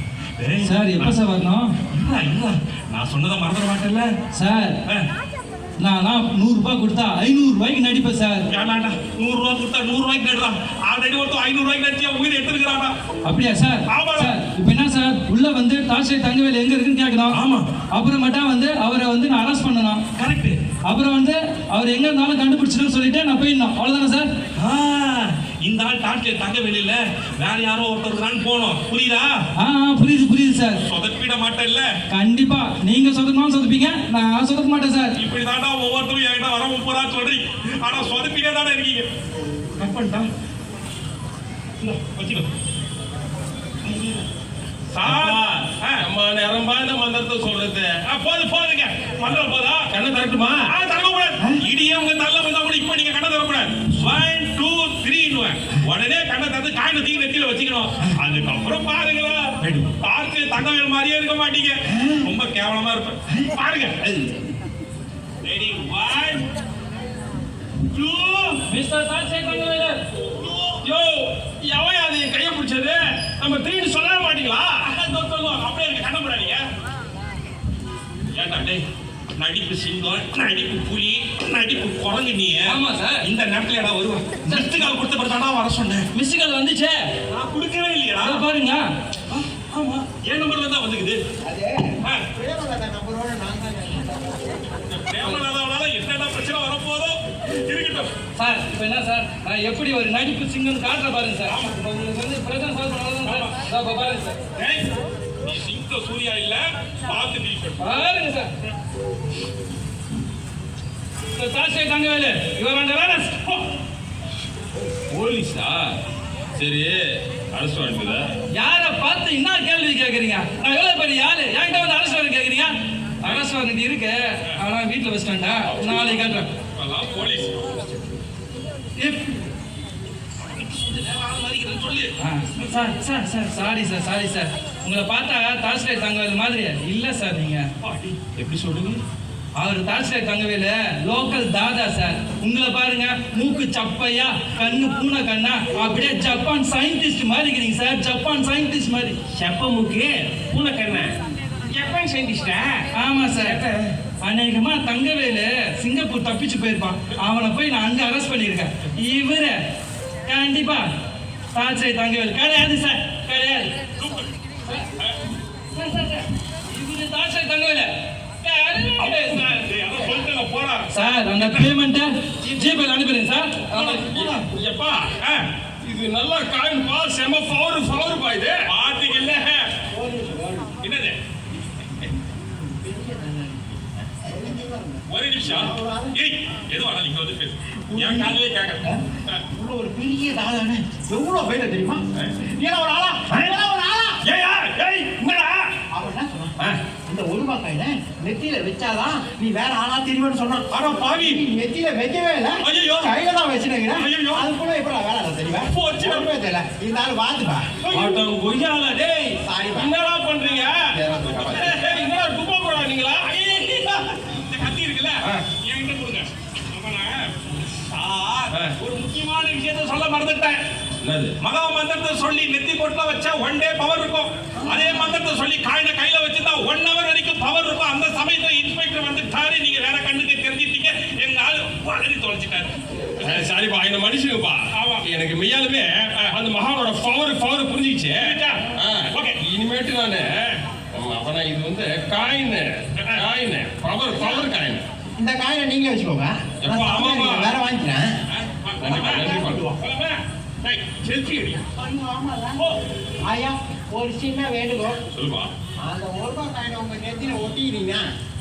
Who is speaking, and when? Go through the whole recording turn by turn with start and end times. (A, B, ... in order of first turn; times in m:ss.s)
0:00.4-0:01.2 A
0:00.6-0:01.7 B
0:01.9-0:04.1 A
0:04.3-0:04.8 B
0:05.8-0:08.5 B
0:08.5-0:12.9 A
0:13.2-0:17.4 B
0:13.9-0:14.4 A
0:17.3-0:17.7 A
0:17.9-0:20.0 B
0:20.2-0:20.6 A
0:20.9-0:24.3 B
0:24.6-0:29.3 A
0:29.6-0:30.8 B
0:30.8-0:31.9 A
0:32.1-0:35.1 B
0:35.2-0:39.1 A
0:39.8-0:40.3 A
0:41.8-0:42.5 A
0:44.9-0:46.0 A
0:45.0-0:47.9 C
0:48.1-0:49.9 A
0:49.9-0:50.7 C
0:50.7-1:04.1 A
1:02.0-1:02.3 D
1:05.4-1:06.4 A
1:07.9-1:08.6 A
1:08.7-1:10.0 B
1:10.4-1:10.8 A
1:10.8-1:14.8 C
1:14.8-1:16.6 A
1:18.4-1:18.8 A
1:19.4-1:26.1 A
1:22.6-1:23.2 B
1:24.4-1:24.9 B
1:26.1-1:27.0 B
1:27.3-1:28.4 A
1:28.2-1:28.8 B
1:29.3-1:31.2 A
1:31.4-1:34.4 D
1:34.8-1:38.1 A
1:38.4-1:44.4 B
1:41.5-1:41.8 A
1:43.2-1:43.6 A
1:44.6-1:44.9 A
1:45.4-1:47.9 A
1:47.8-1:48.5 B
1:51.4-1:53.6 B
1:55.1-1:55.8 C
1:56.6-1:57.0 C
1:57.5-1:58.3 C
1:58.5-2:06.5 B
2:05.6-2:07.8 A
2:09.0-2:09.4 B
2:10.5-2:12.1 A
2:12.2-2:17.7 B
2:17.8-2:19.0 A
2:19.6-2:29.2 B
2:29.3-2:31.1 C
2:31.7-2:32.9 C
2:33.0-2:33.6 B
2:33.4-2:33.7 C
2:34.2-2:39.6 B
2:40.2-2:40.9 B
2:41.5-2:43.7 B
2:44.0-2:44.2 A
2:45.7-2:47.9 B
2:48.4-2:49.5 B
2:49.0-2:50.8 C
2:49.2-2:50.1 A
2:50.9-2:54.4 B
2:51.4-2:51.7 A
2:52.4-2:52.8 D
2:53.8-2:55.1 C
2:55.0-2:55.4 A
2:55.8-2:58.7 C
2:58.7-2:59.6 A
2:59.9-3:00.8 D
3:00.8-3:01.2 A
3:02.5-3:06.2 D
3:05.1-3:09.4 A
3:07.9-3:09.0 D
3:09.5-3:14.2 D
3:13.3-3:13.6 C
3:14.2-3:15.7 C
3:15.9-3:16.6 D
3:17.1-3:27.7 D
3:20.7-3:21.4 A
3:22.6-3:23.1 A
3:24.0-3:24.5 A
3:25.7-3:26.3 A
3:27.8-3:29.4 A
3:27.9-3:29.0 C
3:29.4-3:29.9 D
3:29.7-3:30.9 C
3:31.0-3:31.8 D
3:31.2-3:32.1 A
3:31.6-3:33.3 C
3:33.2-3:40.6 A
3:41.0-3:41.3 C
3:41.4-3:52.8 A
3:44.6-3:45.2 D
3:53.2-4:00.3 C
3:54.7-3:55.0 A
3:58.2-3:59.4 A
4:00.9-4:04.8 C
4:04.1-4:04.5 D
4:05.2-4:08.1 D
4:06.6-4:07.5 C
4:08.3-4:11.6 A
4:08.8-4:09.7 C
4:08.8-4:09.8 D
4:11.8-4:12.6 D
4:13.3-4:15.0 D
4:15.1-4:15.5 C
4:15.8-4:18.1 D